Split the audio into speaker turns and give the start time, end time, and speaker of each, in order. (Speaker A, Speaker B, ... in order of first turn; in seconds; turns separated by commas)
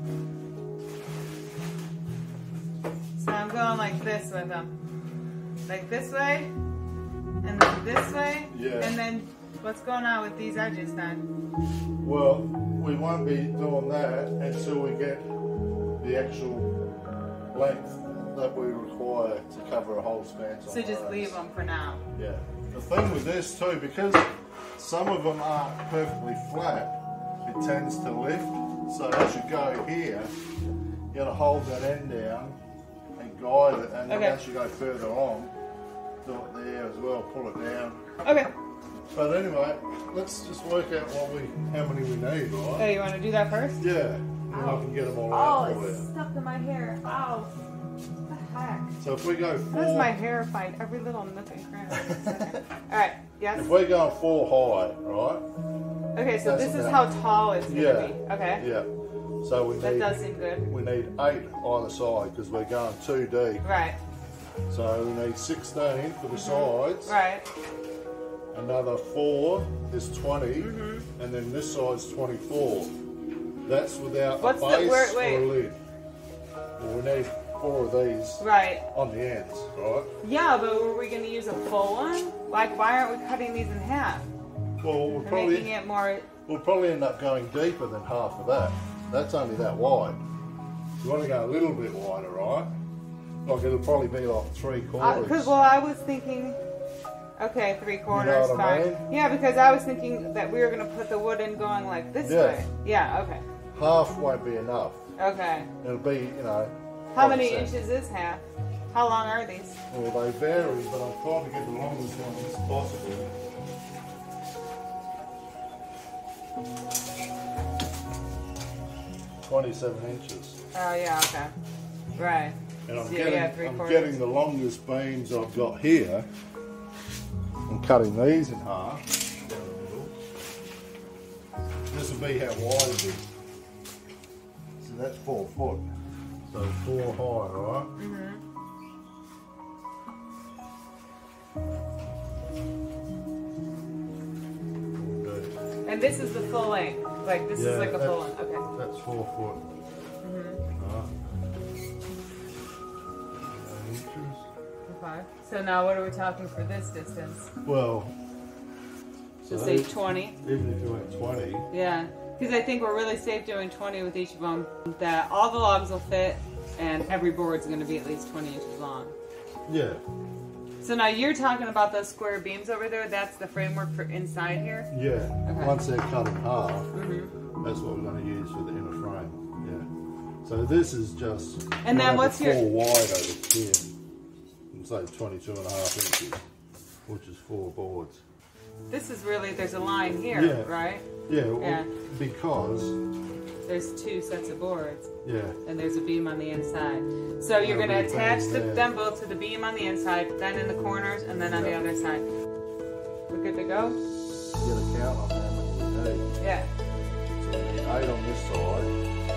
Speaker A: 3.1-4.7, Speaker A: 5.7-6.5, Speaker A: 7.4-11.2, Speaker B: 8.5-8.9, Speaker B: 12.0-15.3, Speaker B: 16.0-16.7, Speaker B: 17.5-21.4, Speaker A: 20.7-22.0, Speaker B: 22.1-30.3, Speaker B: 31.1-32.6, Speaker B: 33.2-35.5, Speaker A: 34.1-34.4, Speaker B: 36.2-38.0, Speaker A: 38.2-38.5, Speaker B: 39.1-42.9, Speaker A: 42.8-43.8, Speaker B: 43.8-46.1, Speaker A: 44.5-47.5, Speaker A: 48.3-48.9, Speaker B: 49.0-50.1, Speaker A: 49.7-53.7, Speaker B: 52.0-52.4, Speaker B: 53.5-55.4, Speaker A: 56.1-58.7, Speaker B: 56.4-57.1, Speaker B: 57.7-58.9, Speaker B: 59.4-63.6, Speaker A: 59.8-60.7, Speaker A: 63.6-64.0, Speaker B: 64.7-67.1, Speaker A: 66.3-67.5, Speaker B: 68.5-72.9, Speaker A: 70.6-71.1, Speaker B: 73.6-75.8, Speaker A: 74.4-75.5, Speaker B: 76.8-80.1, Speaker A: 78.4-78.8, Speaker A: 80.2-84.3, Speaker B: 84.8-85.7, Speaker A: 85.1-86.3, Speaker B: 86.5-90.2, Speaker B: 91.0-92.7, Speaker B: 93.4-95.6, Speaker A: 95.0-96.6, Speaker A: 97.4-103.4, Speaker B: 98.1-99.0, Speaker B: 102.2-102.6, Speaker B: 103.7-105.0, Speaker A: 105.2-105.7, Speaker B: 105.8-107.8, Speaker A: 107.1-109.8, Speaker B: 109.9-113.3, Speaker B: 119.4-120.6, Speaker A: 120.7-121.5, Speaker A: 122.2-124.1, Speaker B: 122.9-126.3, Speaker B: 127.7-130.1, Speaker B: 131.9-133.3, Speaker B: 134.8-135.9, Speaker B: 136.5-137.9, Speaker A: 138.0-138.4, Speaker B: 144.9-145.5, Speaker A: 145.8-148.6, Speaker B: 147.5-149.6, Speaker A: 150.2-150.6, Speaker B: 150.8-151.1, Speaker B: 153.5-154.4, Speaker A: 154.9-157.5, Speaker B: 157.6-158.1, Speaker B: 159.4-161.7, Speaker A: 159.5-160.4, Speaker A: 161.7-169.1, Speaker B: 169.7-170.0, Speaker A: 170.8-174.9, Speaker B: 174.9-176.9, Speaker A: 175.4-175.8, Speaker A: 176.9-177.3, Speaker B: 177.6-179.9, Speaker B: 180.4-183.8, Speaker A: 181.8-182.7, Speaker B: 184.7-186.4, Speaker B: 187.1-188.2, Speaker A: 188.9-191.1, Speaker B: 190.3-192.9, Speaker A: 191.6-191.9, Speaker A: 193.7-195.1, Speaker B: 195.2-195.6, Speaker A: 195.6-202.2, Speaker B: 197.6-198.9, Speaker B: 201.5-201.8, Speaker A: 203.3-204.0, Speaker B: 204.5-206.3, Speaker A: 206.4-206.7, Speaker B: 207.4-208.9